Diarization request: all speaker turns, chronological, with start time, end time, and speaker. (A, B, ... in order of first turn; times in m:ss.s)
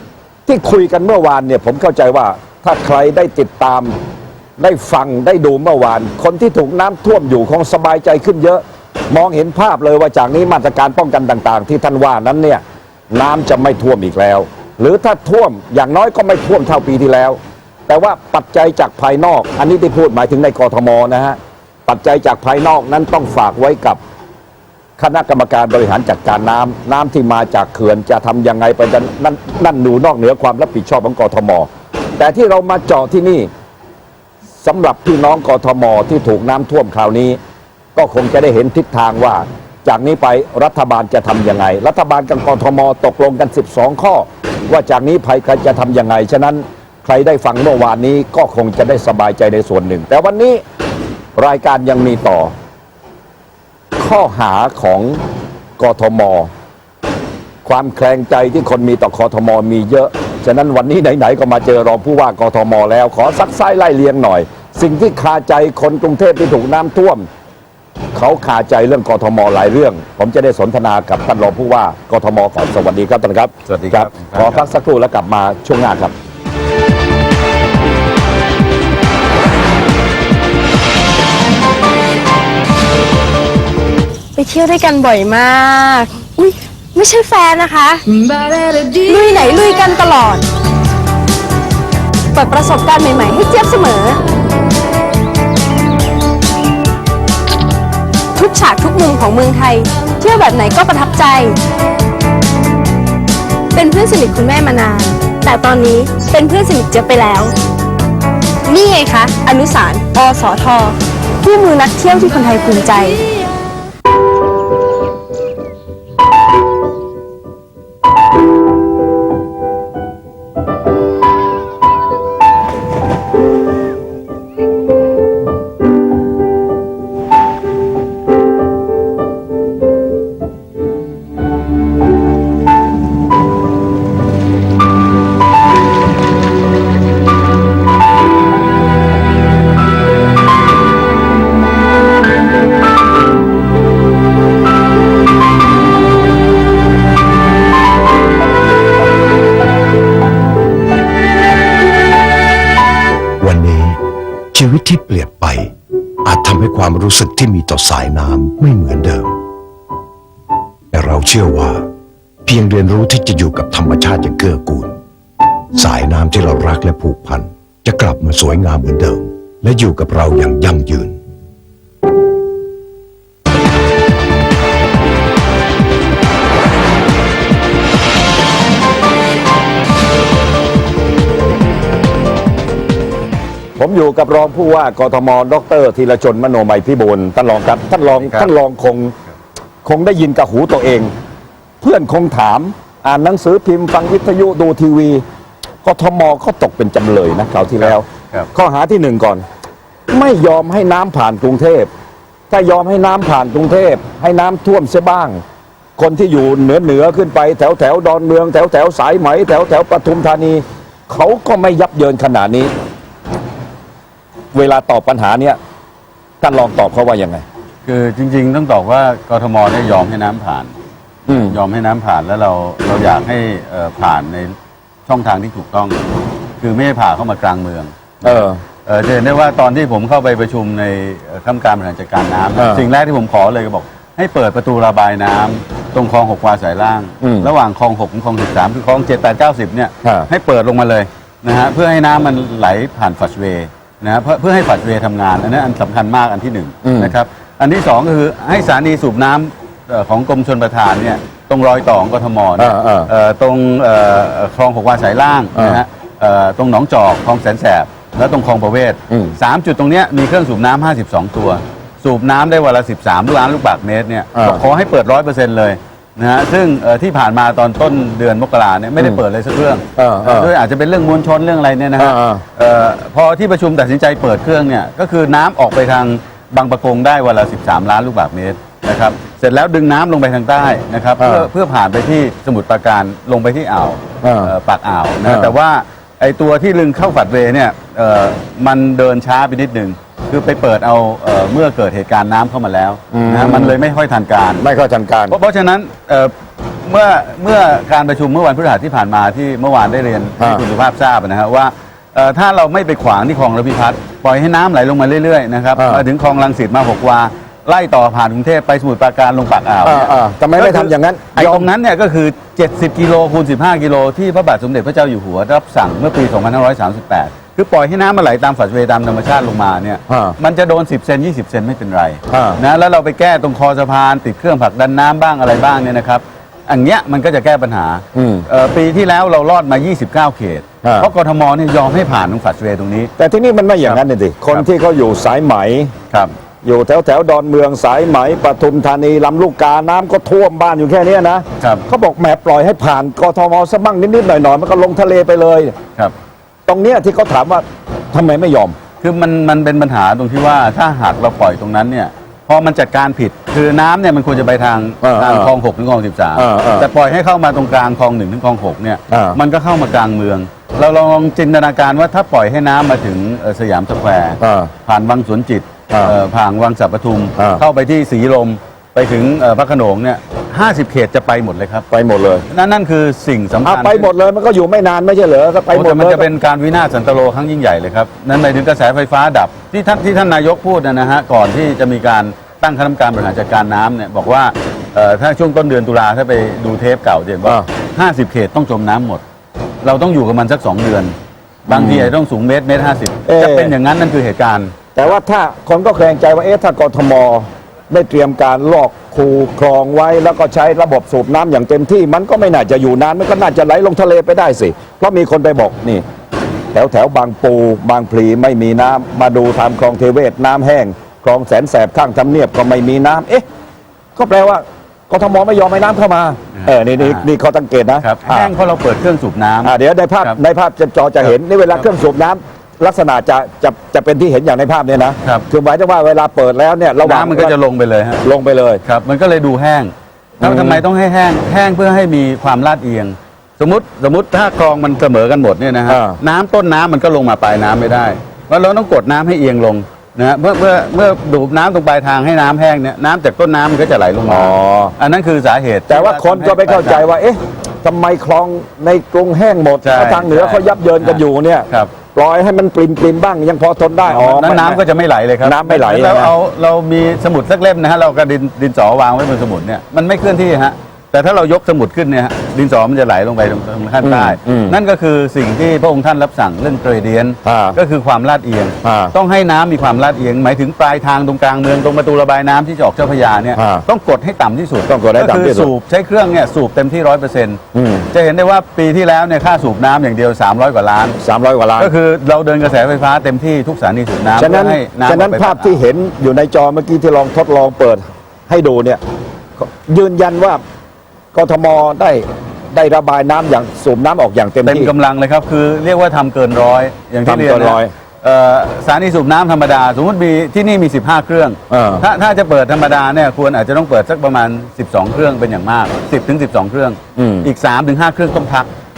0:00.5-0:04.0 A
0:04.6-0:24.0 A
0:25.0-0:33.5 A
0:34.6-0:37.4 A
0:38.0-0:50.6 A
0:51.4-0:52.5 A
0:54.0-0:55.2 A
0:55.8-0:56.5 A
0:57.6-1:07.3 A
1:08.1-1:16.1 A
1:13.7-1:14.7 B
1:24.4-1:28.0 C
1:28.8-1:30.4 C
1:32.3-1:34.2 C
1:38.4-1:41.6 C
1:43.7-1:47.5 C
1:48.7-1:53.2 C
2:33.4-2:34.0 D
2:34.5-2:39.4 D
2:40.9-2:41.9 D
2:42.4-2:45.0 D
2:45.7-2:51.2 D
3:03.8-3:09.1 A
3:08.1-3:08.5 B
3:09.8-3:11.1 A
3:11.8-3:15.2 A
3:15.8-3:19.4 A
3:17.8-3:18.5 B
3:20.1-3:21.9 A
3:22.5-3:25.4 A
3:26.0-3:32.7 A
3:34.5-3:35.6 A
3:36.4-3:37.4 A
3:37.8-3:40.7 B
3:41.3-3:41.6 A
3:41.3-3:44.6 B
3:45.1-3:46.0 B
3:46.6-4:54.6 B
3:48.2-3:48.6 A
3:52.6-3:52.9 A
3:57.2-3:57.5 A
4:00.0-4:00.3 A
4:06.8-4:07.2 A
4:12.6-4:13.1 A
4:15.6-4:15.8 A
4:19.1-4:19.4 A
4:24.4-4:24.6 A
4:30.0-4:30.5 A
4:32.0-4:32.4 A
4:41.2-4:41.5 A
4:44.2-4:44.5 A
4:45.2-4:45.5 A
4:53.1-4:53.8 A
4:54.6-4:55.4 A
4:55.3-5:33.1 B
5:00.4-5:00.6 A
5:05.8-5:06.0 A
5:09.8-5:11.7 A
5:20.1-5:20.4 A
5:22.3-5:22.6 A
5:28.1-5:28.5 A
5:30.8-5:31.1 A
5:33.2-5:35.9 A
5:33.8-5:34.7 B
5:36.6-5:45.7 A
5:41.6-5:41.9 B
5:46.7-5:48.8 A
5:49.0-6:11.9 B
5:55.0-5:55.5 A
5:56.4-5:56.9 A
5:59.1-5:59.4 A
6:04.4-6:04.7 A
6:07.4-6:07.6 A
6:11.9-6:12.4 A
6:12.5-6:14.1 B
6:13.6-6:16.3 A
6:15.7-6:29.2 B
6:29.8-6:31.2 B
6:31.7-6:32.1 A
6:31.7-6:34.8 B
6:33.3-6:33.7 A
6:35.0-6:46.0 A
6:46.7-6:53.4 A
6:54.2-6:58.5 A
6:56.6-6:57.3 B
6:58.0-7:00.4 B
6:59.6-7:07.5 A
7:07.0-7:08.2 B
7:08.2-7:08.8 A
7:08.8-7:27.1 B
7:10.4-7:10.8 A
7:15.9-7:16.2 A
7:24.3-7:25.0 A
7:25.9-7:34.8 A
7:29.8-7:31.9 B
7:34.1-7:57.6 B
7:35.4-7:36.3 A
7:44.0-7:44.8 A
7:47.4-7:47.8 A
7:48.8-7:49.2 A
7:53.6-7:53.8 A
7:54.9-7:55.7 A
7:57.7-7:58.1 A
7:58.1-8:01.2 B
8:01.2-8:01.9 A
8:01.8-8:05.8 B
8:04.4-8:09.0 A
8:09.6-8:10.6 A
8:11.3-8:14.9 A
8:14.6-8:28.7 B
8:17.3-8:17.9 A
8:21.7-8:22.1 A
8:27.2-8:27.5 A